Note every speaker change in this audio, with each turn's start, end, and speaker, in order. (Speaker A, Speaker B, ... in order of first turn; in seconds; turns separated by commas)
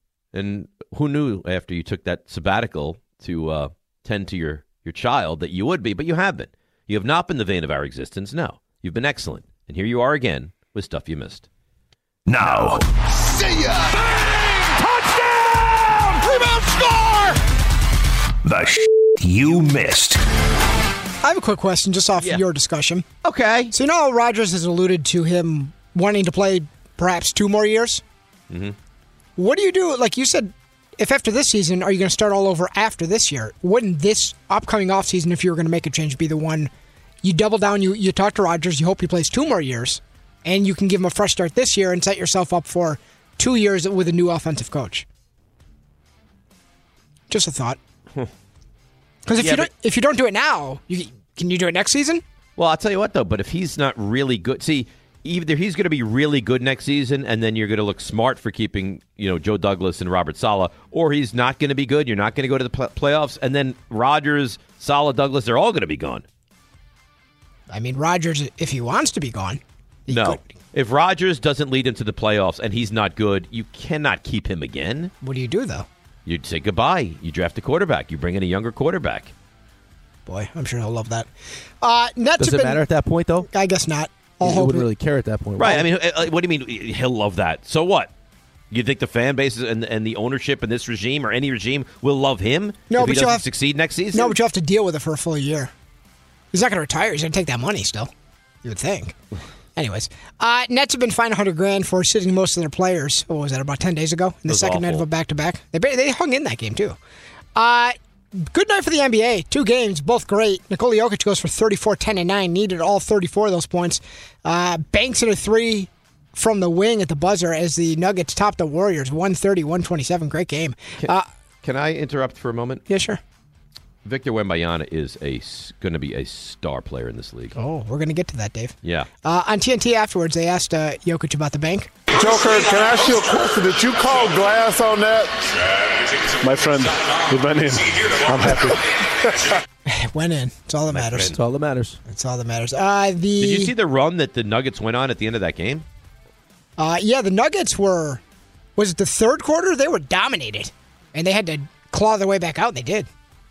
Speaker A: 0.3-11.5, Speaker B: 12.3-12.8, Speaker B: 14.8-17.3, Speaker B: 18.4-20.2, Speaker C: 21.2-23.0, Speaker A: 23.2-23.7, Speaker C: 23.7-28.0, Speaker A: 28.5-28.8, Speaker C: 29.4-36.7, Speaker C: 37.2-45.0, Speaker C: 47.3-47.8, Speaker C: 49.2-52.2, Speaker A: 49.4-49.7, Speaker A: 52.6-66.2, Speaker C: 67.7-70.4, Speaker A: 70.1-75.1, Speaker C: 75.2-75.9, Speaker A: 76.2-79.3, Speaker C: 80.2-81.3, Speaker C: 81.8-82.8, Speaker D: 82.4-83.5, Speaker C: 83.5-84.9, Speaker D: 84.4-85.9, Speaker A: 85.6-88.1, Speaker A: 88.7-94.3, Speaker C: 92.9-93.4, Speaker C: 94.1-95.7, Speaker C: 96.5-98.1, Speaker C: 98.6-99.1, Speaker C: 99.8-107.0, Speaker A: 104.5-105.0, Speaker C: 107.5-121.2, Speaker A: 121.0-122.8, Speaker C: 122.9-123.2, Speaker A: 124.0-127.5, Speaker C: 127.5-131.9, Speaker A: 128.8-129.1, Speaker E: 132.2-135.3, Speaker E: 136.4-138.8, Speaker C: 139.9-141.3, Speaker A: 140.9-141.4, Speaker D: 141.3-142.0, Speaker C: 142.1-143.7, Speaker A: 143.4-145.8, Speaker C: 146.8-148.2, Speaker C: 148.8-153.1